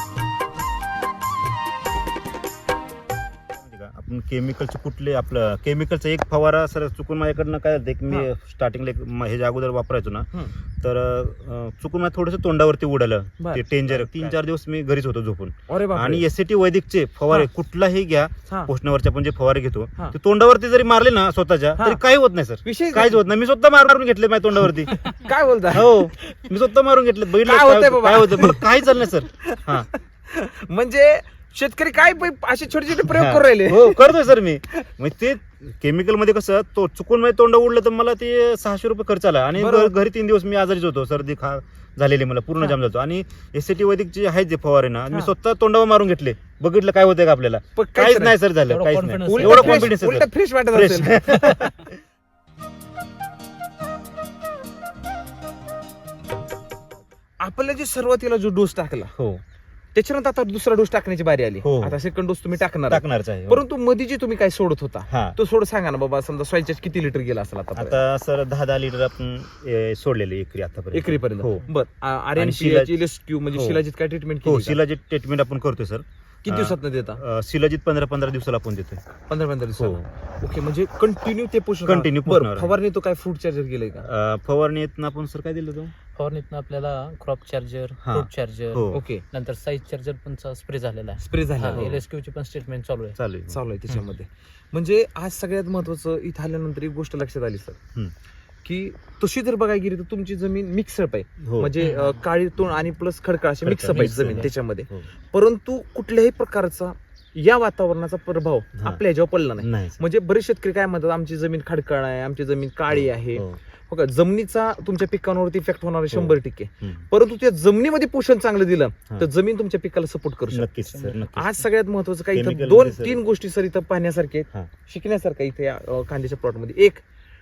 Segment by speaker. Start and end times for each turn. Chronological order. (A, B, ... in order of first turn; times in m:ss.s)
0:03.5-0:10.3 A
0:10.8-0:25.1 A
0:13.4-0:14.3 B
0:15.7-0:16.3 B
0:22.6-0:23.2 B
0:25.0-0:26.0 B
0:25.7-0:29.9 A
0:27.4-0:28.7 B
0:29.4-0:34.2 B
0:33.1-0:52.0 A
0:39.6-0:40.0 B
0:47.8-0:48.4 B
0:48.7-0:49.9 C
0:49.3-0:51.5 B
0:57.4-0:59.1 B
0:59.2-0:59.4 A
1:00.0-1:08.0 B
1:01.6-1:02.0 A
1:02.9-1:03.6 A
1:05.1-1:05.4 A
1:07.8-1:11.7 A
1:10.9-1:14.8 B
1:12.4-1:12.9 A
1:13.5-1:13.8 A
1:14.4-1:19.0 A
1:16.4-1:17.2 B
1:19.3-1:24.1 B
1:19.8-1:20.0 A
1:21.9-1:22.8 A
1:24.0-1:25.9 A
1:26.2-1:33.2 C
1:28.0-1:29.0 A
1:28.9-1:29.2 B
1:31.2-1:31.9 B
1:31.7-1:32.0 A
1:33.2-1:33.6 A
1:33.5-1:37.8 B
1:38.6-2:00.7 B
1:41.4-1:41.7 A
1:41.8-1:42.2 C
1:43.6-1:45.1 A
1:43.9-1:44.4 C
1:49.6-1:50.0 A
1:52.9-1:53.6 A
1:56.1-1:57.1 A
2:00.5-2:01.6 A
2:01.3-2:07.0 B
2:02.3-2:03.2 A